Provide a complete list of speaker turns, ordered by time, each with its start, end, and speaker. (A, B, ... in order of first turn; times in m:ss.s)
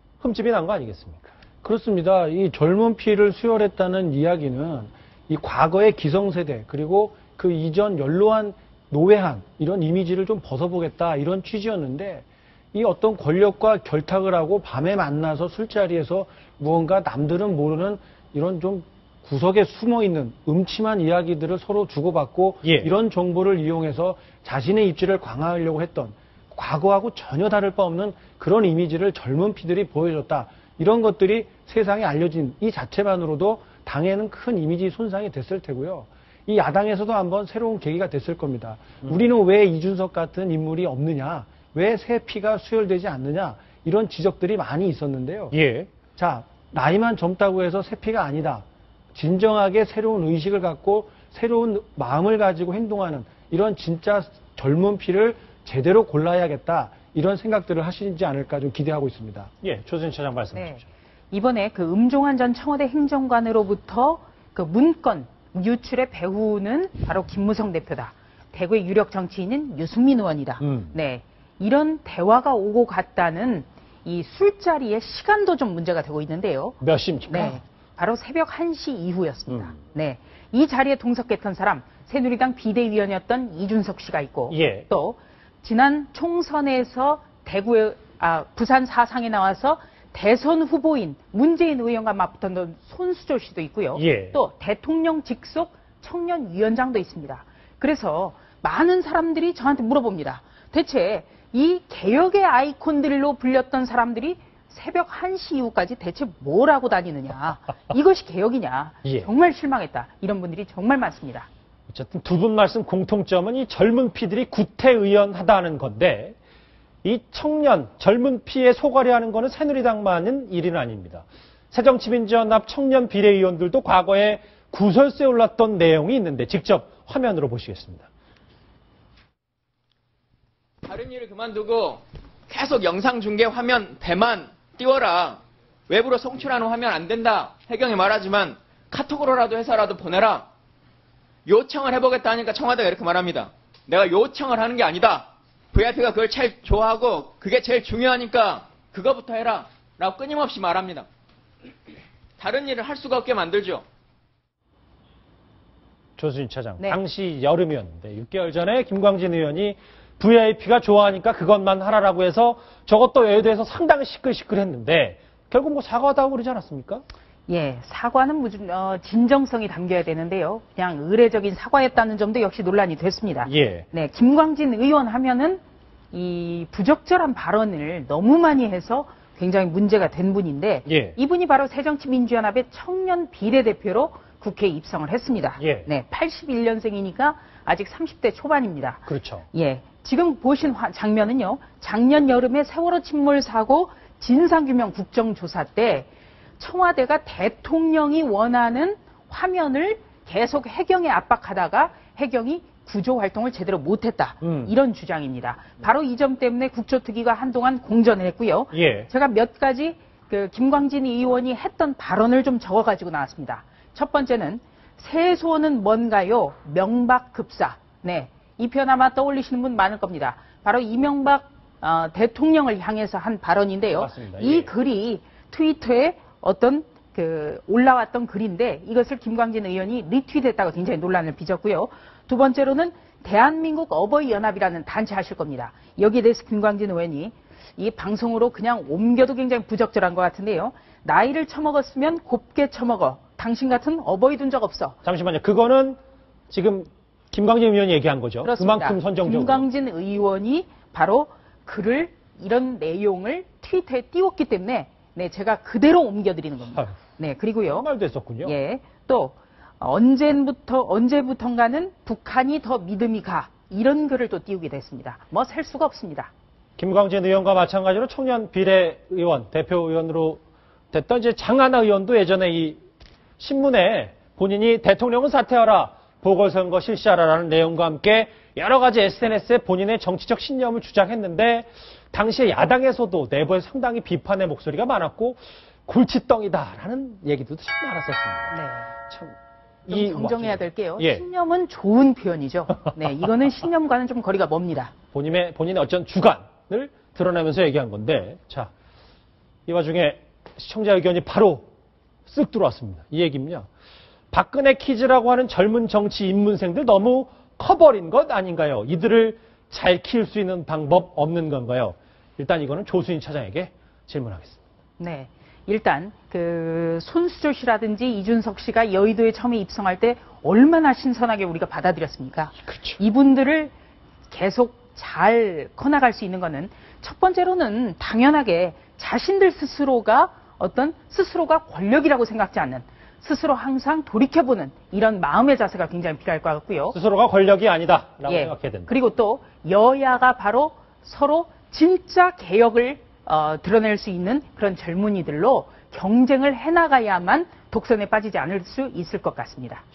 0:00.2-0:01.3 A
0:01.6-0:45.5 B
0:22.6-0:22.9 A
0:45.5-0:45.9 A
0:46.2-0:59.5 B
0:59.6-1:00.8 A
1:00.5-1:51.5 C
1:10.6-1:10.9 A
1:16.8-1:17.6 A
1:24.5-1:24.9 A
1:33.9-1:34.4 A
1:51.9-1:56.4 A
1:57.0-2:08.1 A
2:10.8-2:20.5 D
2:21.4-2:31.1 D
2:32.4-2:33.8 D
2:36.2-2:47.0 A
2:47.5-4:05.0 C
2:53.4-2:53.8 A
3:00.9-3:01.2 A
3:05.6-3:05.9 A
3:09.1-3:09.4 A
3:24.4-3:24.7 A
3:28.7-3:29.1 A
3:44.0-3:44.7 A
4:05.0-4:06.0 A
4:06.5-4:09.6 A
4:08.4-4:17.8 C
4:17.6-4:18.5 A
4:18.4-4:26.3 C
4:26.8-4:30.4 A
4:30.9-4:32.8 A
4:33.4-4:48.5 A
4:48.5-4:48.9 C
4:49.1-4:49.3 A
4:49.8-4:51.2 A
4:49.9-4:54.9 C
4:55.1-4:58.7 A
4:59.7-5:01.7 A
5:02.3-5:03.7 A
5:04.3-5:14.6 A
5:15.0-5:23.7 C
5:24.3-5:36.9 C
5:36.9-5:38.9 A
5:38.3-5:49.8 C